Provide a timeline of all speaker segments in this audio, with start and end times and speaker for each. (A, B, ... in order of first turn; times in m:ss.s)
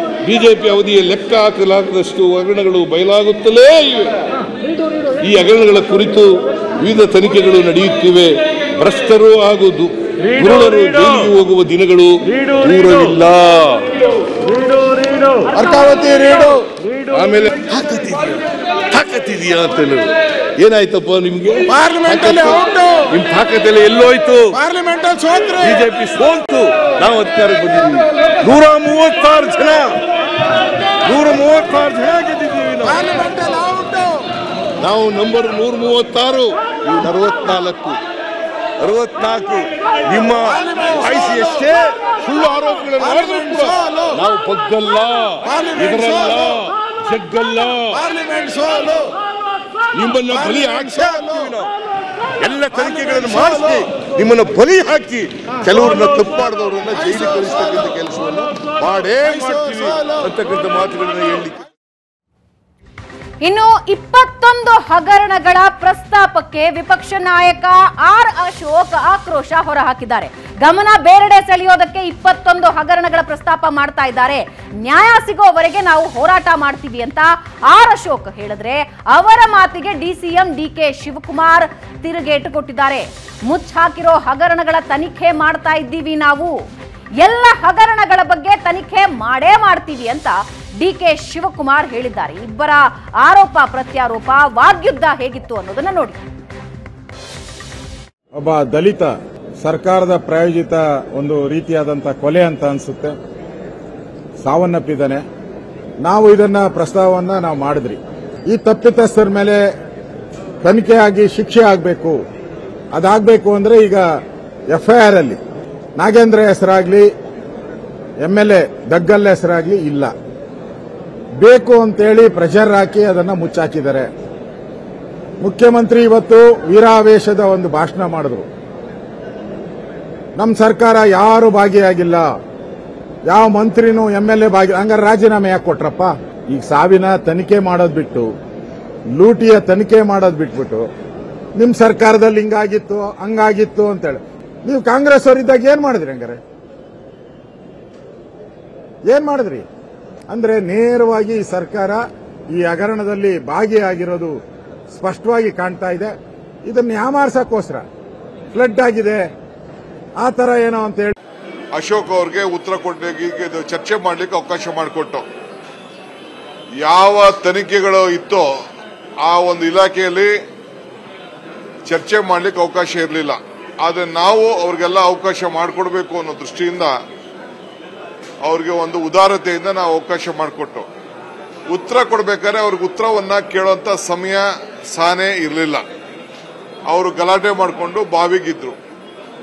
0:00.2-0:04.1 A
0:05.2-0:13.9 A
0:15.5-0:16.6 B
0:17.1-0:18.4 A
0:18.9-0:24.6 A
0:21.7-0:23.1 B
0:24.5-0:25.8 B
0:25.6-0:30.0 A
0:31.0-0:33.2 A
0:32.8-0:34.2 B
0:34.8-0:38.0 A
0:38.8-0:48.0 A
0:40.5-0:41.8 B
0:43.0-0:44.2 B
0:45.4-0:46.4 B
0:47.9-0:49.1 B
0:49.9-0:51.7 A
0:50.3-0:51.5 B
0:52.4-1:01.6 A
0:52.7-0:53.8 B
0:56.9-0:57.8 B
0:59.2-1:00.1 B
1:03.4-1:26.6 C
1:27.2-1:36.2 C
1:38.4-1:43.2 B
1:44.4-1:45.2 B
1:46.0-1:48.0 B
1:48.5-1:49.6 B
1:50.6-1:52.1 B
1:52.9-1:54.0 B
1:54.7-1:55.4 B
1:56.0-1:57.1 B
1:58.2-2:00.1 B
2:01.4-2:04.1 B
2:05.4-2:08.4 B
2:10.4-2:12.2 B
2:13.3-2:18.3 B
2:19.1-2:20.8 B
2:21.6-2:26.4 B
2:29.0-2:29.6 B
2:30.3-2:32.0 B
2:32.5-2:34.4 B
2:34.9-2:37.8 B
2:38.5-2:39.2 B
2:40.2-2:41.1 B
2:41.7-2:45.2 D
2:46.8-2:48.5 D
2:49.2-2:50.3 D
2:51.9-2:56.9 D
2:58.4-3:00.9 D
3:01.7-3:05.8 D
3:06.9-3:08.8 D